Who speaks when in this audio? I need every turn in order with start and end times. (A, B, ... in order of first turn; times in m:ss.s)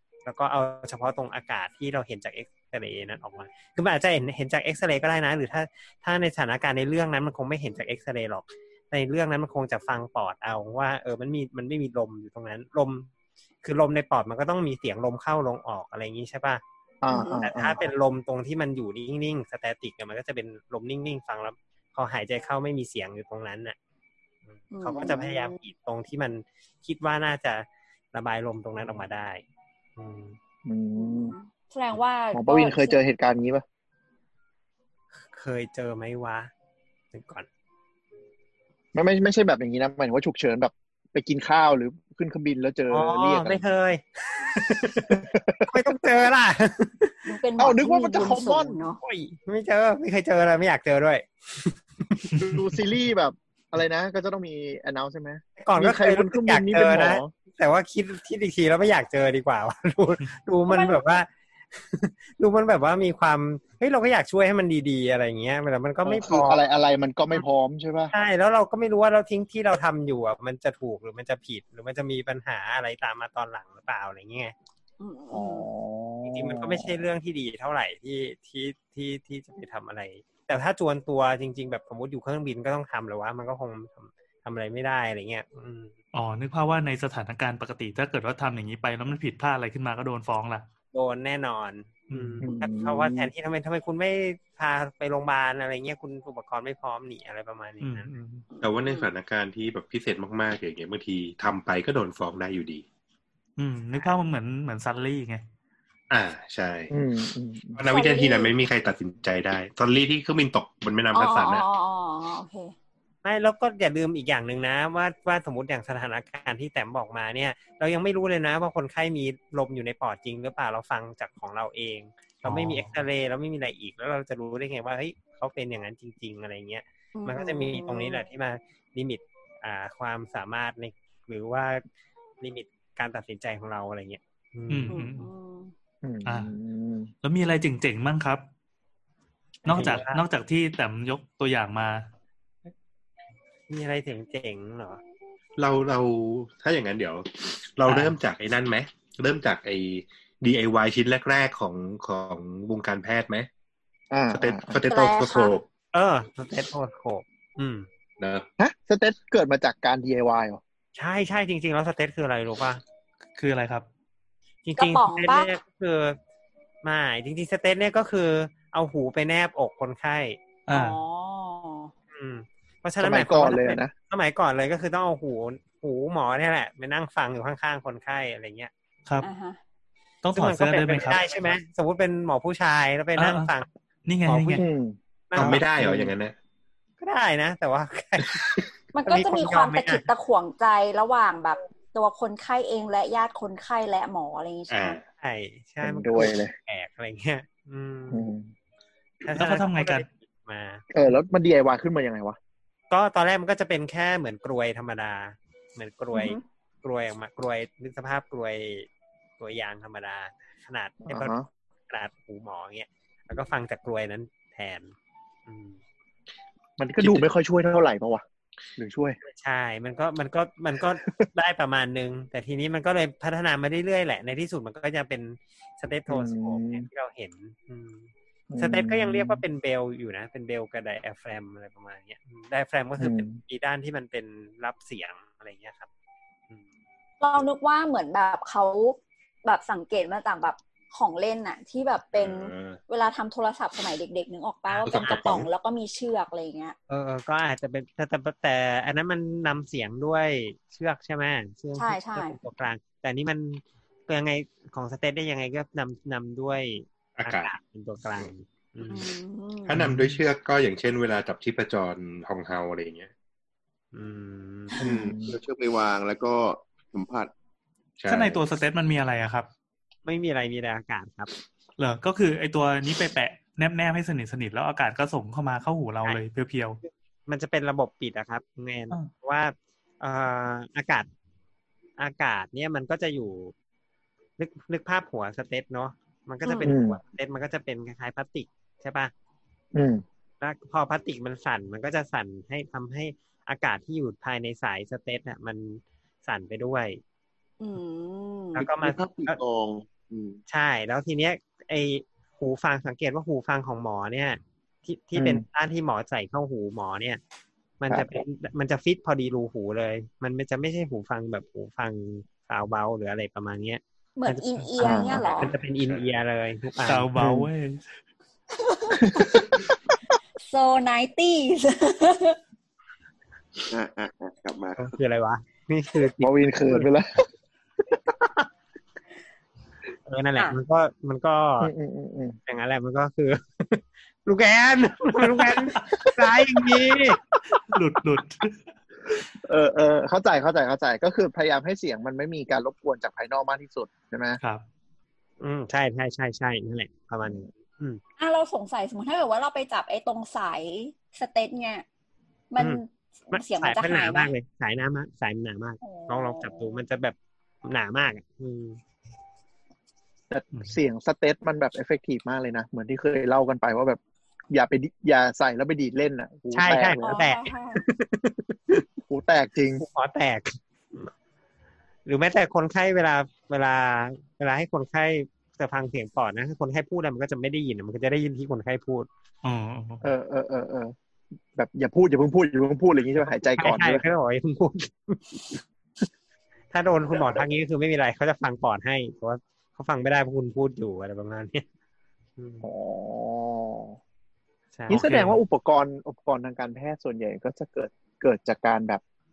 0:00.2-0:13.1 A
0:13.6-0:16.6 A
0:17.0-0:17.8 B
0:17.1-0:17.5 C
0:17.4-0:23.8 A
0:24.6-0:29.4 A
0:24.7-0:25.6 C
0:30.0-0:30.4 A
0:30.6-0:31.3 B
0:31.0-0:33.0 C
0:32.3-0:33.6 B
0:35.3-0:36.5 A
0:37.1-0:37.5 A
0:38.9-0:43.7 B
0:42.9-0:47.1 A
0:44.6-0:45.8 B
0:47.2-0:49.0 C
0:47.6-0:48.8 B
0:49.0-0:52.3 A
0:52.4-0:52.6 D
0:52.4-0:57.3 B
0:55.6-1:06.6 A
1:00.7-1:01.0 C
1:06.0-1:08.1 B
1:08.1-1:14.5 A
1:15.0-1:15.7 C
1:15.3-1:17.0 B
1:16.2-1:26.0 A
1:26.1-1:30.7 D
1:30.9-1:38.1 A
1:32.1-1:32.4 D
1:32.4-1:33.3 B
1:37.8-1:38.4 D
1:38.6-1:42.8 E
1:38.8-1:39.1 C
1:43.6-1:45.4 D
1:46.1-1:46.9 E
1:46.9-1:47.8 B
1:47.7-1:51.6 E
1:47.9-1:48.5 C
1:51.1-1:52.7 C
1:53.2-2:11.8 A
2:02.4-2:02.9 D
2:07.1-2:08.3 C
2:12.4-2:15.0 A
2:14.7-2:15.3 D
2:14.9-2:15.7 C
2:16.0-2:17.1 B
2:16.2-2:16.5 D
2:17.2-2:18.4 D
2:19.6-2:22.1 D
2:19.6-2:20.2 A
2:23.7-2:25.0 A
2:25.6-2:33.5 E
2:34.1-2:34.8 B
2:34.3-2:35.6 E
2:34.9-2:35.5 C
2:35.9-2:37.9 A
2:38.2-2:38.5 E
2:38.6-2:40.6 B
2:41.0-2:42.8 A
2:43.4-2:43.8 D
2:44.6-2:46.2 A
2:44.8-2:45.6 C
2:46.8-2:50.4 A
2:50.7-2:51.0 D
2:50.7-2:51.9 C
2:52.1-2:58.7 A
2:53.0-2:53.9 B
2:59.2-2:59.6 C
3:00.2-3:01.6 D
3:00.3-3:03.7 A
3:03.2-3:03.5 D
3:04.0-3:04.6 D
3:04.3-3:04.6 A
3:04.6-3:06.1 B
3:05.3-3:05.8 A
3:05.3-3:06.3 E
3:07.0-3:10.0 A
3:08.9-3:15.0 C
3:14.7-3:15.0 E
3:15.2-3:18.3 A
3:15.8-3:16.5 B
3:18.1-3:18.5 B
3:19.2-3:20.8 A
3:19.3-3:20.0 D
3:20.9-3:22.4 B
3:22.9-3:28.9 A
3:26.1-3:26.4 C
3:29.4-3:31.4 A
3:31.1-3:31.5 B
3:31.9-3:34.9 A
3:35.4-3:35.8 A
3:36.8-3:38.2 B
3:37.0-3:37.2 E
3:38.8-3:39.2 B
3:39.2-3:55.9 A
3:46.1-3:46.8 B
3:48.5-3:49.4 B
3:53.0-3:53.4 B
3:57.2-4:06.8 C
4:02.1-4:02.8 E
4:04.7-4:05.2 A
4:04.8-4:05.5 E
4:06.9-4:19.1 A
4:11.8-4:12.4 C
4:17.2-4:17.5 E
4:18.9-4:19.8 C
4:19.7-4:23.1 E
4:23.9-4:24.9 A
4:24.8-4:27.3 F
4:24.8-4:25.4 B
4:28.0-4:28.4 E
4:28.1-4:29.5 D
4:30.0-4:31.3 A
4:31.8-4:36.8 D
4:36.8-4:41.1 A
4:42.0-4:43.5 A
4:44.4-4:49.1 A
4:46.6-4:47.0 B
4:49.7-4:50.0 B
4:50.4-4:57.0 A
4:57.6-4:58.6 C
4:58.5-4:59.4 A
4:58.8-5:00.4 F
5:00.5-5:07.2 A
5:05.2-5:05.4 B
5:07.8-5:17.1 A
5:07.9-5:08.2 B
5:14.2-5:15.5 C
5:14.8-5:15.3 B
5:15.5-5:16.2 E
5:16.8-5:17.9 D
5:17.2-5:17.5 B
5:18.6-5:19.0 C
5:19.0-5:19.4 B
5:20.4-5:22.4 C
5:23.7-5:24.9 F
5:24.8-5:26.9 A
5:26.2-5:27.1 B
5:28.1-5:28.4 A
5:30.0-5:31.7 A
5:31.6-5:32.4 B
5:32.5-5:37.2 A
5:35.3-5:35.8 D
5:37.6-5:38.7 D
5:39.4-5:44.4 B
5:45.4-5:48.0 A
5:48.2-5:51.8 C
5:52.5-5:54.3 C
5:53.3-5:58.8 A
5:55.8-5:56.8 C
6:00.3-6:04.0 B
6:04.5-6:07.2 B
6:06.5-6:08.8 A
6:07.0-6:07.8 C
6:09.1-6:09.8 B
6:09.8-6:11.1 A
6:12.0-6:19.1 A
6:19.4-6:20.0 D
6:20.0-6:20.9 B
6:21.5-6:24.0 B
6:23.6-6:25.6 A
6:26.7-6:31.6 A
6:32.4-6:32.7 A
6:32.6-6:34.0 B
6:34.7-6:35.2 A
6:34.9-6:39.0 B
6:34.9-6:35.4 D